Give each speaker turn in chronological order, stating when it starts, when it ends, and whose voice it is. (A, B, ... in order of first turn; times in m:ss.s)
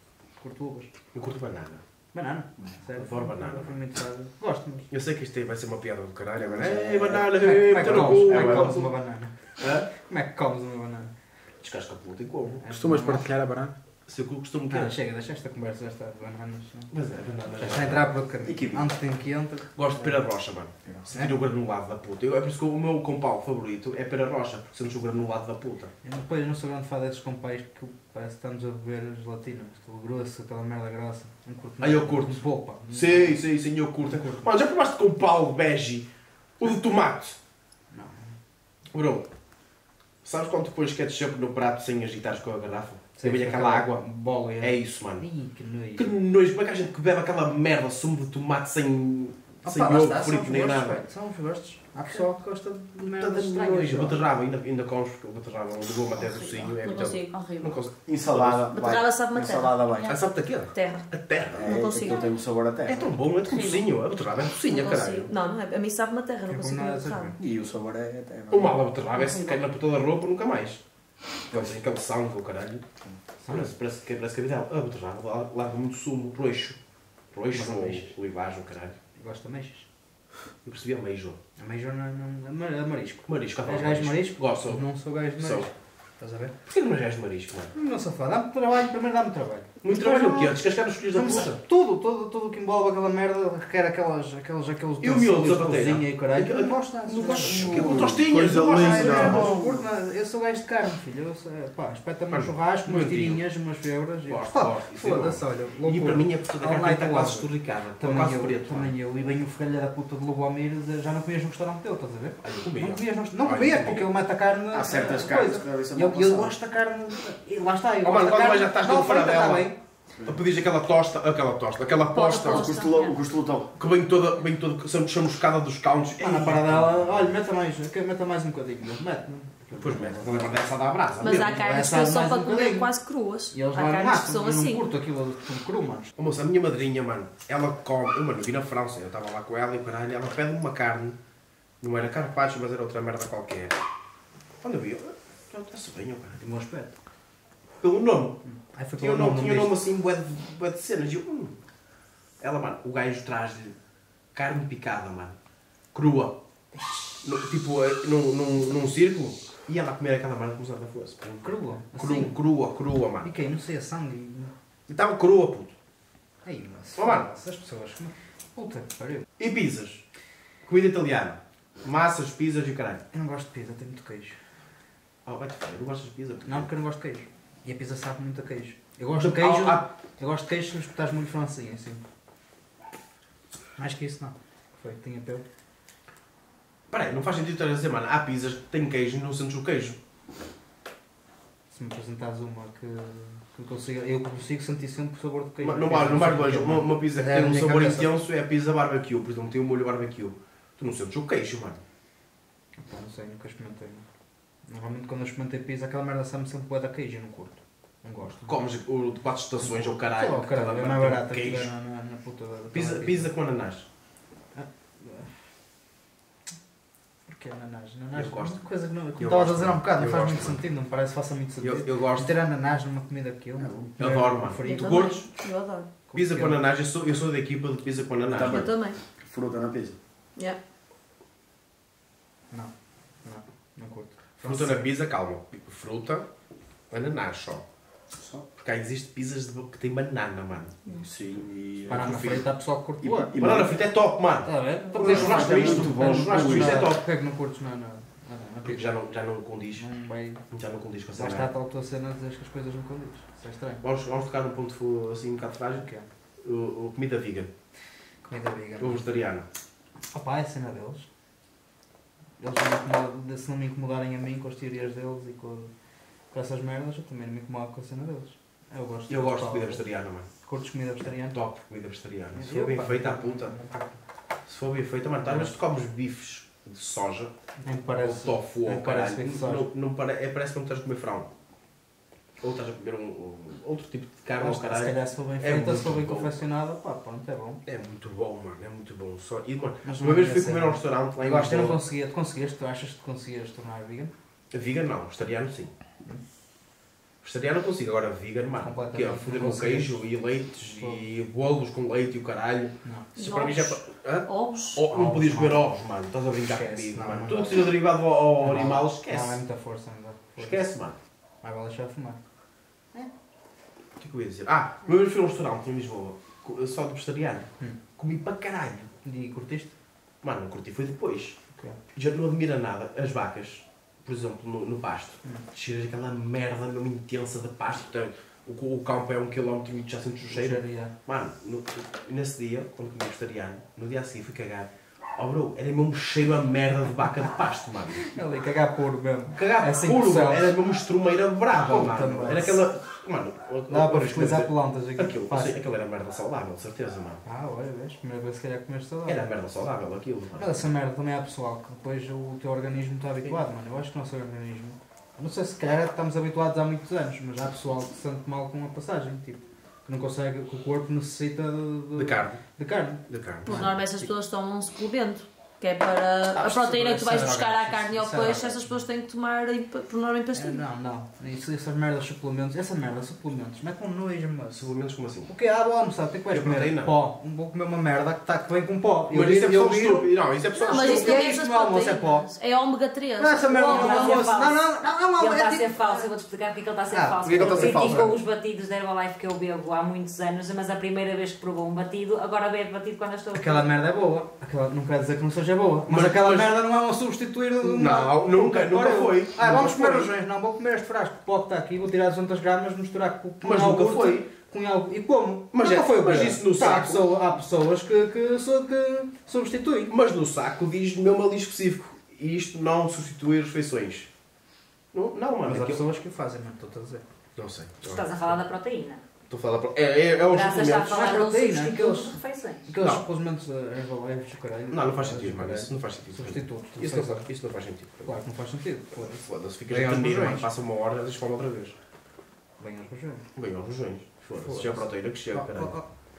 0:00.4-0:00.9 A
0:01.1-0:01.8 B
0:02.1-0:04.9 A
0:02.9-0:03.7 B
0:04.9-0:08.9 B
0:06.4-0:08.8 C
0:07.3-0:09.3 A
0:09.6-0:09.9 B
0:09.9-0:11.1 A
0:11.6-0:12.6 B
0:12.6-0:13.3 A
0:12.7-0:13.7 D
0:14.1-0:15.0 B
0:14.7-0:16.9 A
0:16.9-0:18.1 B
0:17.6-0:20.2 A
0:18.4-0:18.9 C
0:19.8-0:25.9 B
0:26.0-0:33.4 A
0:31.8-0:37.4 B
0:34.1-0:34.5 A
0:37.9-0:38.3 A
0:38.9-0:39.3 B
0:40.2-0:44.0 B
0:43.2-0:46.2 A
0:44.6-0:45.2 B
0:46.0-0:51.0 B
0:49.6-0:54.3 A
0:53.1-0:58.7 B
0:56.7-0:57.8 E
0:58.1-1:00.2 C
0:58.7-1:00.1 E
1:00.1-1:01.7 B
1:00.7-1:02.3 E
1:01.5-1:03.3 C
1:02.9-1:05.3 B
1:03.5-1:03.9 F
1:04.6-1:07.4 E
1:06.5-1:07.4 A
1:07.4-1:08.8 C
1:08.5-1:10.8 B
1:09.3-1:09.6 F
1:11.5-1:12.8 B
1:13.0-1:13.7 A
1:13.5-1:16.8 B
1:17.3-1:19.0 B
1:17.5-1:18.1 A
1:19.2-1:19.9 A
1:20.6-1:21.4 B
1:21.6-1:26.5 A
1:23.3-1:24.8 B
1:25.4-1:25.7 B
1:26.6-1:27.7 B
1:27.7-1:47.5 A
1:29.8-1:31.6 B
1:35.0-1:39.6 B
1:37.4-1:39.8 C
1:38.2-1:39.4 D
1:42.3-1:43.4 B
1:44.3-1:48.9 B
1:48.0-1:59.8 A
1:52.4-1:54.1 B
1:54.7-1:56.6 C
1:58.0-1:59.7 B
2:00.1-2:00.4 C
2:00.2-2:02.8 B
2:02.1-2:03.2 F
2:02.4-2:03.7 C
2:03.8-2:07.4 B
2:06.2-2:10.7 A
2:09.7-2:11.6 B
2:11.2-2:14.9 E
2:11.2-2:12.9 A
2:13.5-2:16.1 A
2:16.2-2:21.2 B
2:21.8-2:23.8 B
2:24.6-2:26.4 B
2:26.4-2:26.9 A
2:27.8-2:28.4 B
2:28.4-2:29.8 A
2:29.0-2:31.6 B
2:32.4-2:33.8 B
2:34.4-2:35.4 B
2:35.9-2:36.4 B
2:37.2-2:43.3 B
2:41.4-2:42.4 A
2:43.2-2:44.5 A
2:44.9-2:45.7 B
2:46.4-2:49.2 A
2:47.0-2:47.3 B
2:49.4-2:50.0 B
2:50.6-2:53.0 B
2:53.1-2:54.4 A
2:55.2-2:56.7 B
2:56.4-3:02.0 A
2:59.2-2:59.9 B
3:03.8-3:05.4 A
3:06.9-3:10.0 B
3:11.7-3:18.1 A
3:15.6-3:21.8 B
3:22.8-3:24.0 A
3:24.7-3:28.6 A
3:28.4-3:31.7 B
3:29.6-3:33.3 A
3:32.7-3:33.9 B
3:34.6-3:35.3 A
3:37.3-3:45.2 A
3:38.1-3:38.6 B
3:39.2-3:40.6 B
3:41.6-3:42.4 B
3:43.6-3:43.9 C
3:44.0-3:45.3 B
3:44.6-3:45.9 E
3:46.1-3:46.6 A
3:46.1-3:48.7 B
3:48.3-3:50.0 C
3:48.4-3:49.0 E
3:53.2-3:54.9 A
3:54.4-3:56.2 B
3:56.9-3:57.6 B
3:58.1-3:58.4 C
3:58.6-4:00.8 B
4:00.9-4:02.5 C
4:01.9-4:02.5 B
4:01.9-4:03.4 A
4:03.0-4:03.8 C
4:03.4-4:07.0 B
4:04.4-4:08.9 A
4:04.9-4:06.9 C
4:08.6-4:09.8 B
4:09.7-4:10.4 A
4:10.5-4:11.5 B
4:11.1-4:13.8 A
4:13.8-4:15.9 B
4:15.7-4:16.1 A
4:16.4-4:17.5 B
4:18.2-4:19.0 A
4:18.8-4:19.4 B
4:20.1-4:21.1 A
4:22.4-4:25.7 A
4:26.3-4:29.8 A
4:29.1-4:30.3 B
4:30.4-4:31.4 A
4:31.3-4:33.6 B
4:32.4-4:34.0 A
4:34.5-4:37.3 B
4:35.2-4:35.5 A
4:37.6-4:39.7 A
4:37.9-4:41.3 B
4:42.4-4:46.4 B
4:44.4-4:47.6 A
4:47.6-4:51.8 B
4:49.8-4:54.1 A
4:54.5-4:55.7 B
4:57.2-5:09.4 B
4:58.6-5:00.0 A
5:00.6-5:01.0 A
5:03.2-5:04.8 E
5:04.9-5:05.7 A
5:06.4-5:07.8 A
5:08.4-5:10.6 A
5:10.4-5:11.0 B
5:11.4-5:12.2 A
5:14.0-5:18.9 B
5:19.0-5:19.7 A
5:20.2-5:21.4 B
5:21.9-5:38.1 B
5:30.3-5:30.9 A
5:38.0-5:40.6 A
5:39.3-5:47.2 B
5:41.5-5:42.6 A
5:43.7-5:45.6 A
5:47.2-5:49.2 A
5:49.1-5:50.6 B
5:50.4-6:04.1 A
6:02.0-6:02.4 B
6:03.1-6:03.8 B
6:03.4-6:10.6 E
6:06.3-6:08.8 A
6:10.3-6:14.7 A
6:14.5-6:15.3 B
6:15.3-6:22.2 A
6:16.3-6:17.0 B
6:19.1-6:21.3 B
6:20.6-6:24.3 E
6:23.2-6:26.0 A
6:23.6-6:24.6 F
6:25.2-6:33.7 F
6:26.9-6:28.2 A
6:27.2-6:27.7 C
6:33.4-6:49.9 A
6:35.9-6:36.6 B
6:37.6-6:40.1 B
6:43.4-6:44.3 B
6:45.5-6:47.1 B
6:49.9-6:54.1 B
6:54.9-6:55.8 B
6:55.4-6:57.0 A
6:57.4-6:58.4 B
6:57.8-6:59.0 F
6:59.3-7:00.9 B
7:00.3-7:02.7 F
7:00.3-7:01.5 E
7:00.9-7:07.3 A
7:04.7-7:08.2 B
7:08.0-7:10.5 A
7:09.2-7:11.8 B
7:12.6-7:13.2 A
7:13.4-7:15.8 B
7:14.4-7:15.9 A